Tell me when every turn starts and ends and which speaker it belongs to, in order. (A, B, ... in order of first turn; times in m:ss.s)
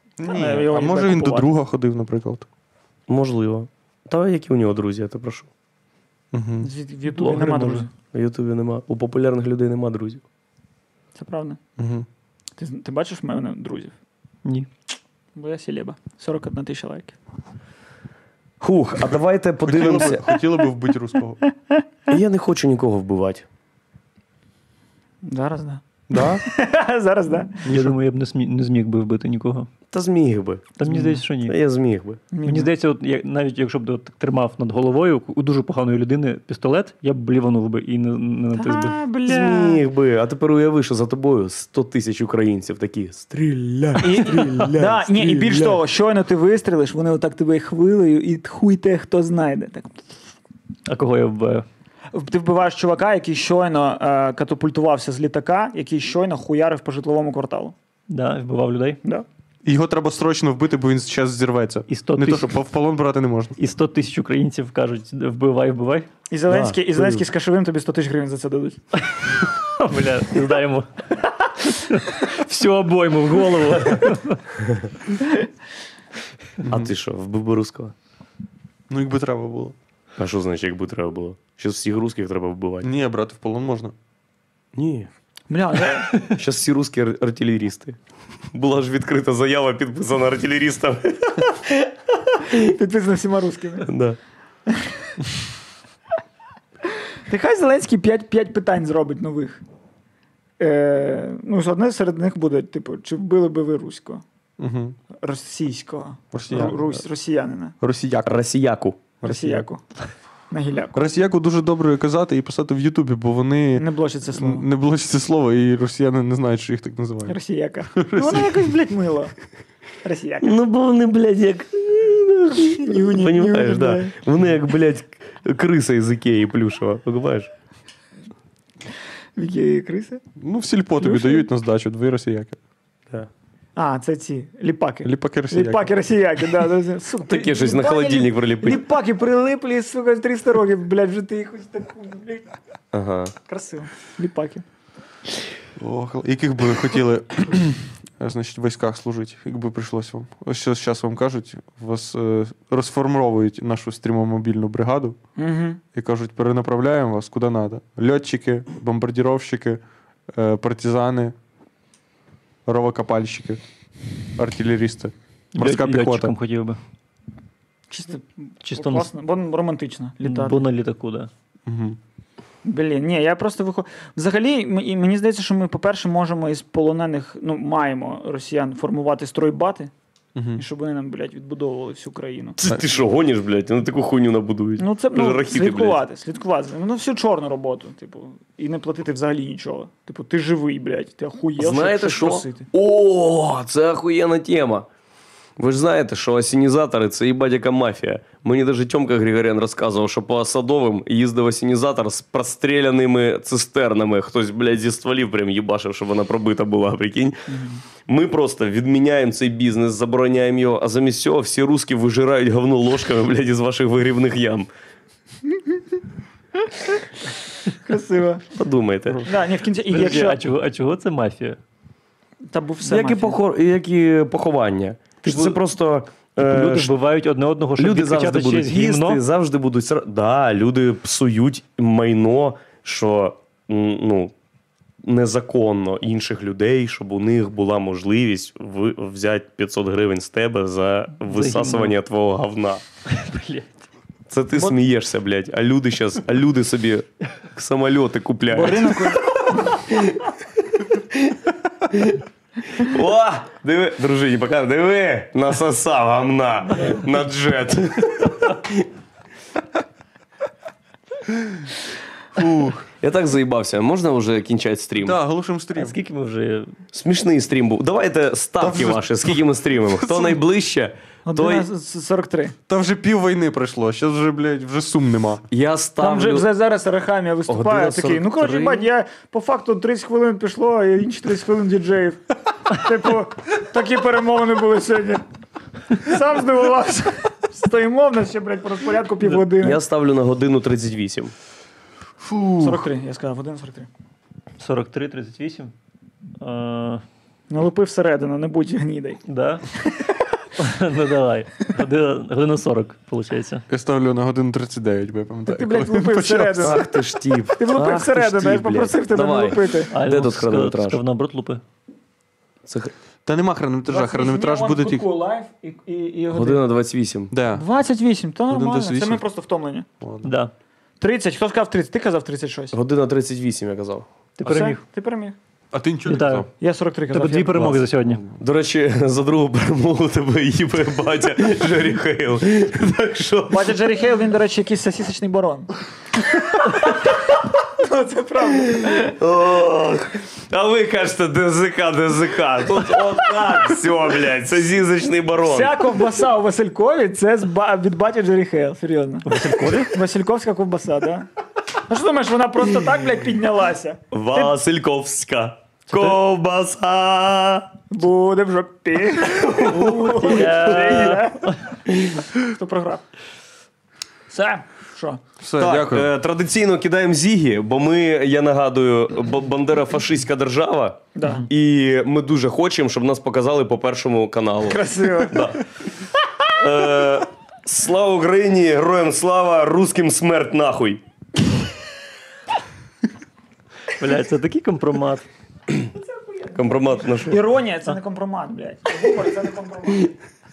0:00.2-0:02.5 A
0:00.2-0:01.5 B
0:03.1-0:05.5 C
0:06.3-0:06.7 A
0:06.6-0:07.9 B
0:07.1-0:07.8 D
0:08.1-0:10.2 C
0:11.1-0:11.6 B
0:11.8-0:12.1 A
0:12.6-0:13.9 B
0:15.3-0:17.2 B
0:18.6-0:20.3 C
0:19.6-0:21.4 A
0:19.9-0:20.6 B
0:22.1-0:23.4 C
0:25.2-0:27.6 B
0:26.1-0:26.4 A
0:27.6-0:28.0 A
0:27.6-0:29.7 D
0:29.9-0:30.7 C
0:30.8-0:31.6 D
0:30.8-0:31.2 B
0:31.4-0:32.2 C
0:32.3-0:32.7 B
0:32.4-0:39.0 D
0:38.5-0:39.8 B
0:39.3-0:45.8 C
0:44.0-0:50.0 B
0:50.9-0:51.6 D
0:52.1-0:57.7 B
0:58.1-0:59.0 D
0:59.6-1:03.6 A
1:01.9-1:02.5 D
1:03.6-1:06.1 D
1:06.3-1:08.8 B
1:06.5-1:07.2 C
1:09.3-1:14.4 D
1:16.6-1:16.9 A
1:16.6-1:17.9 C
1:18.9-1:19.7 A
1:20.2-1:22.9 C
1:22.8-1:23.9 A
1:24.7-1:25.1 C
1:25.5-1:26.1 B
1:26.1-1:28.0 C
1:28.5-1:32.5 C
1:32.5-1:33.9 B
1:33.8-1:34.2 C
1:34.7-1:35.2 B
1:37.3-1:39.6 B
1:40.6-1:44.2 B
1:44.6-1:45.0 A
1:45.1-1:47.7 B
1:46.3-1:47.0 A
1:47.8-1:48.4 A
1:48.2-1:49.0 C
1:49.2-1:49.6 A
1:49.2-1:49.8 B
1:50.5-1:51.0 B
1:50.9-1:57.4 A
1:53.8-1:54.6 B
1:57.3-1:59.3 B
1:57.9-1:58.7 A
2:00.0-2:00.5 B
2:00.4-2:07.5 C
2:02.8-2:04.2 B
2:09.4-2:10.2 B
2:10.4-2:12.6 A
2:11.0-2:11.5 B
2:13.8-2:22.6 B
2:15.0-2:15.9 A
2:17.3-2:18.8 C
2:22.9-2:23.3 C
2:23.4-2:24.6 B
2:25.8-2:35.2 A
2:35.4-2:35.8 B
2:35.9-2:41.3 A
2:42.6-2:43.6 A
2:44.4-2:46.3 A
2:45.5-2:46.8 D
2:47.9-2:50.6 B
2:48.6-2:49.1 D
2:50.2-2:51.3 D
2:51.6-2:52.0 A
2:52.6-2:59.9 B
3:00.3-3:00.6 A
3:00.6-3:02.6 B
3:02.6-3:06.0 C
3:04.8-3:12.7 B
3:11.6-3:14.9 C
3:15.6-3:34.7 C
3:27.5-3:27.8 B
3:37.7-3:38.4 B
3:38.5-3:39.3 C
3:39.2-3:40.4 B
3:39.9-3:41.6 D
3:42.5-3:43.4 B
3:42.8-3:46.9 C
3:45.2-3:45.6 D
3:46.4-3:49.2 D
3:47.8-3:54.3 C
3:55.0-4:02.8 C
4:01.2-4:02.0 D
4:03.0-4:03.8 D
4:04.3-4:10.3 C
4:08.5-4:09.7 B
4:10.9-4:18.9 C
4:22.3-4:22.8 A
4:23.0-4:25.2 C
4:25.0-4:26.0 A
4:25.7-4:26.8 D
4:26.9-4:31.7 C
4:28.6-4:30.4 A
4:31.2-4:32.5 B
4:32.7-4:35.4 A
4:35.5-4:36.4 C
4:36.0-4:45.2 B
4:37.5-4:38.9 C
4:45.9-4:49.8 B
4:49.3-4:51.3 C
4:52.2-4:52.8 A
4:52.6-4:53.9 B
4:54.6-4:55.7 D
4:56.4-4:57.0 D
4:57.5-4:59.2 B
4:59.3-4:59.6 D
5:00.6-5:03.6 D
5:03.7-5:06.9 A
5:05.5-5:06.8 B
5:06.6-5:11.0 C
5:07.5-5:09.9 B
5:09.9-5:11.6 D
5:12.6-5:12.9 C
5:13.2-5:15.0 A
5:13.9-5:16.6 B
5:16.3-5:17.3 C
5:17.3-5:17.6 A
5:17.5-5:19.9 B
5:18.5-5:19.2 A
5:20.0-5:20.3 A
5:20.2-5:20.5 D
5:21.0-5:22.7 B
5:22.7-5:24.0 C
5:24.4-5:24.8 D
5:24.4-5:25.4 B
5:25.7-5:26.5 A
5:26.0-5:26.5 D
5:26.6-5:27.7 B
5:27.1-5:28.2 D
5:27.6-5:33.8 C
5:33.5-5:35.7 B
5:36.5-5:39.2 B
5:38.8-5:45.8 C
5:45.4-5:49.3 B
5:49.2-5:49.9 D
5:49.9-5:54.5 B
5:54.1-5:57.8 C
5:55.9-5:56.2 D
5:57.9-6:01.6 B
5:59.2-6:01.2 C
6:00.0-6:01.6 D
6:01.9-6:02.3 C
6:02.3-6:03.0 B
6:04.3-6:05.2 B
6:05.4-6:06.1 A
6:05.6-6:15.6 C
6:11.1-6:11.5 B
6:14.7-6:15.6 B
6:16.5-6:21.0 C
6:23.9-6:25.2 D
6:26.1-6:30.1 B
6:26.5-6:27.4 C